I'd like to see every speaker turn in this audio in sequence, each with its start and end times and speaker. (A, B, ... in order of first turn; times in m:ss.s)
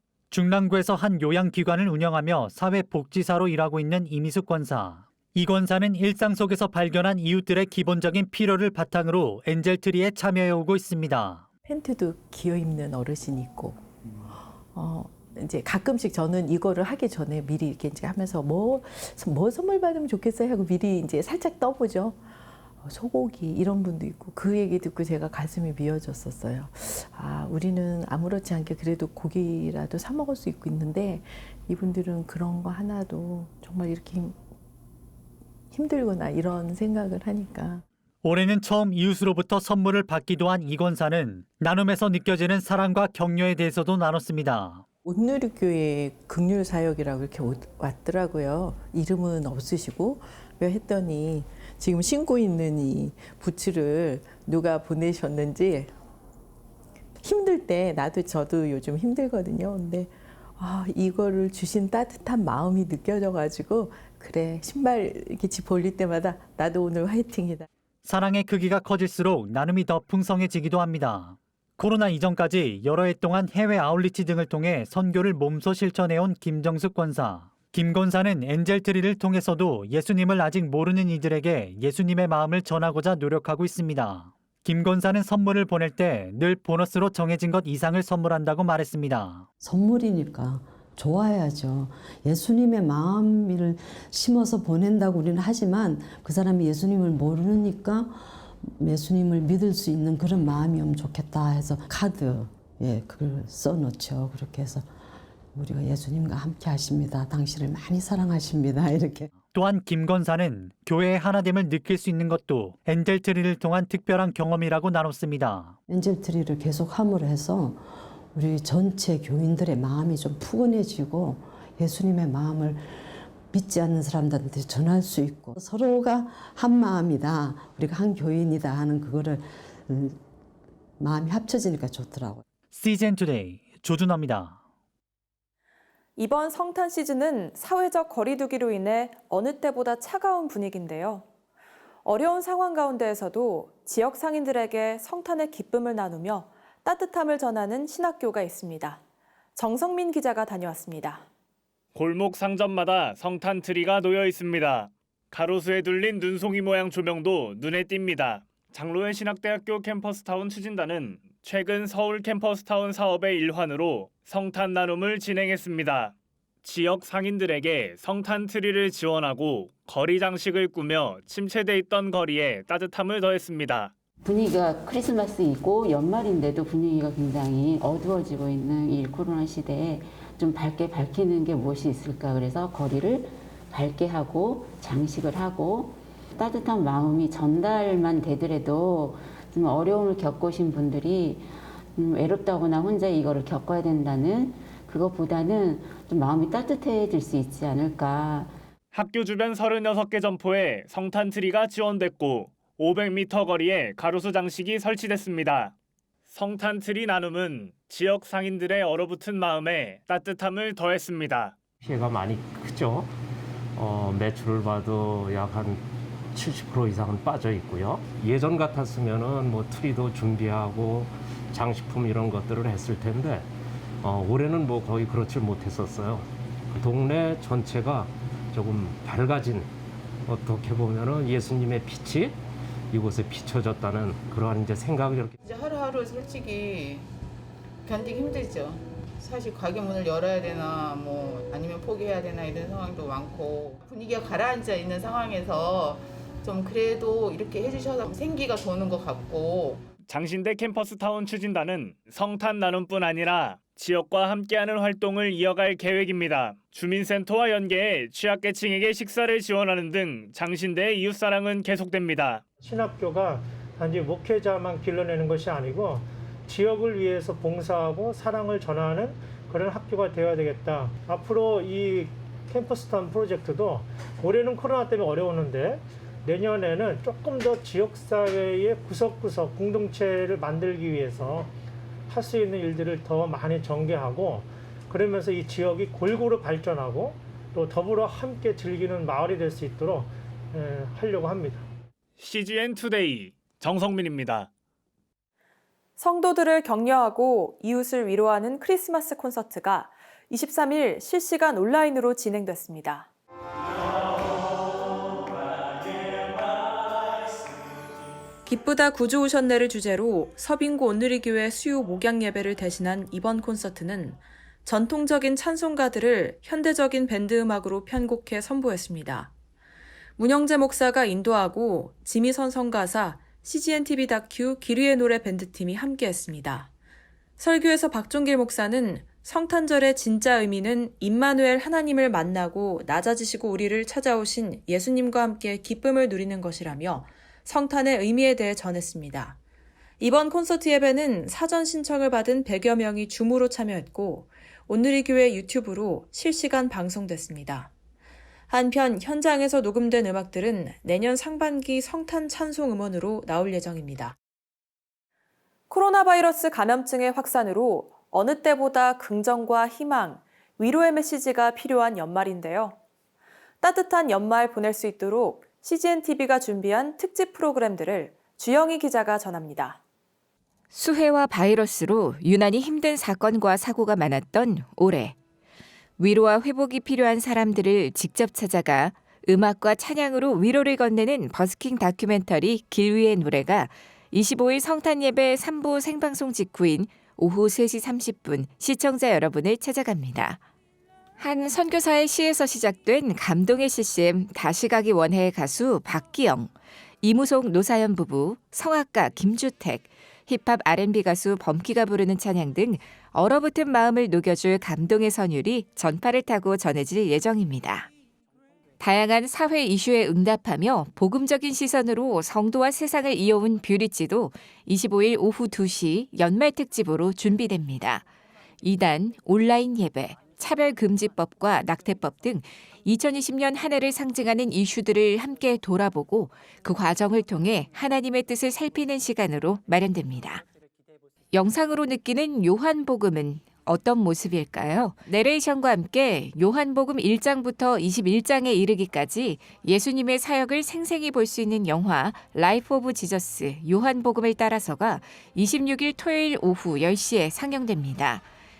0:00.3-0:11.4 A
0:11.6-0:34.4 B
0:35.7-0:37.8 B
0:38.2-0:44.8 A
0:45.0-0:55.9 B
0:57.2-1:07.7 B
1:08.0-1:29.4 A
1:29.6-1:44.8 C
1:45.6-1:49.3 C
1:49.5-1:55.8 A
1:55.9-2:03.0 C
2:03.5-2:10.2 C
2:11.0-2:12.4 C
2:12.7-2:14.6 A
2:16.2-2:21.2 D
2:22.0-2:29.0 D
2:29.6-2:31.2 D
2:31.9-2:53.9 E
2:54.2-3:11.4 F
3:12.0-3:18.5 F
3:18.9-3:25.7 E
3:26.3-3:31.6 E
3:31.8-3:33.1 G
3:33.8-3:43.5 G
3:44.0-3:49.7 G
3:50.2-3:52.4 G
3:52.9-3:55.4 G
3:55.4-3:57.1 H
3:57.8-4:09.8 H
4:10.1-4:22.4 E
4:22.6-4:41.5 I
4:42.1-4:51.7 I
4:52.2-4:54.5 E
4:56.0-5:03.1 D
5:08.4-5:19.3 D
5:20.2-5:26.7 D
5:27.4-5:39.4 D
5:40.0-5:47.7 D
5:48.5-5:54.2 D
5:55.7-6:02.8 D
6:03.6-6:09.8 D
6:10.7-6:15.1 J
6:16.0-6:30.4 J
6:31.2-6:36.5 J
6:37.0-6:47.9 J
6:48.8-6:58.0 J
6:58.6-7:10.4 J
7:11.3-7:28.2 J